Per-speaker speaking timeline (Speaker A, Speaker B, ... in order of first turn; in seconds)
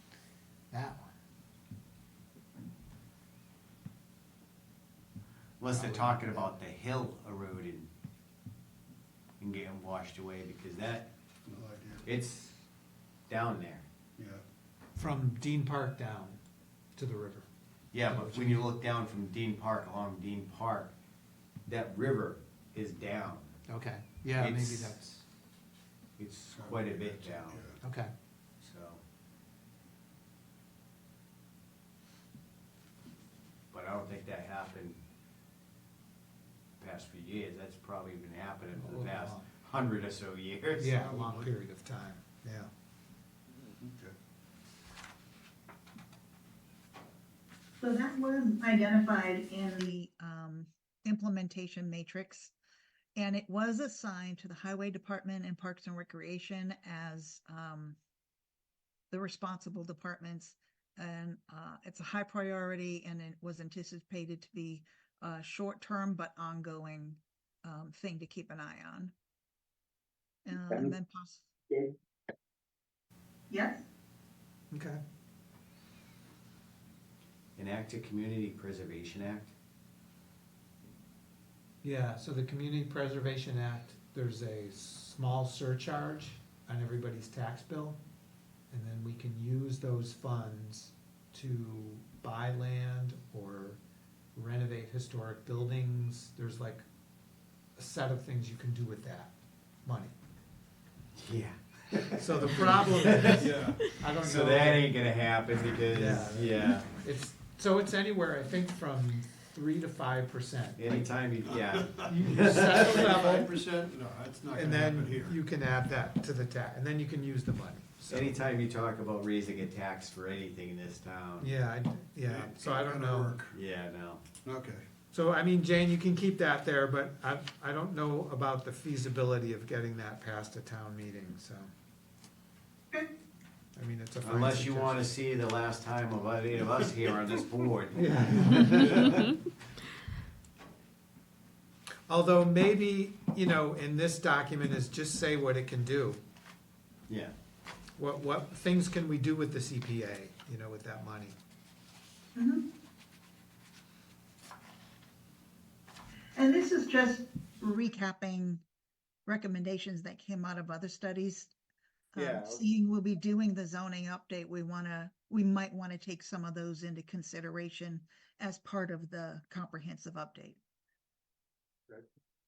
Speaker A: 0.7-1.1, 5.7-6.5, 14.9-16.4, 16.9-18.6, 23.7-25.2, 27.8-28.1, 38.8-39.5, 40.8-42.7, 74.7-75.0, 81.8-88.0, 88.7-93.8, 94.3-96.8, 97.8-99.3, 99.8-100.1, 102.2-104.8, 105.7-111.1, 112.0-113.5, 114.5-118.4, 121.4-123.4, 125.1-131.7, 133.8-135.0, 138.0-139.0, 142.1-146.2, 148.0-151.3, 162.2-162.6
Speaker B: 5.6-7.9, 9.4-11.1, 12.0-12.6, 13.3-13.8, 17.9-20.9, 21.7-23.6, 24.4-25.0, 26.2-27.7, 28.6-29.0, 33.7-35.0, 36.8-40.9, 77.6-79.5, 101.2-103.4, 104.2-106.9, 110.8-112.8, 118.1-121.5, 123.5-124.2, 134.2-139.3
Speaker C: 11.4-12.1, 14.2-14.4, 26.5-27.8, 41.0-41.5, 43.7-44.1, 103.2-103.9, 111.6-112.0, 112.7-115.3, 122.2-123.5, 124.4-124.8
Speaker D: 47.8-52.5, 53.1-58.0, 59.1-69.1, 70.4-71.5, 73.5-73.8, 152.3-152.6, 156.3-158.6, 159.2-161.5, 162.1-170.6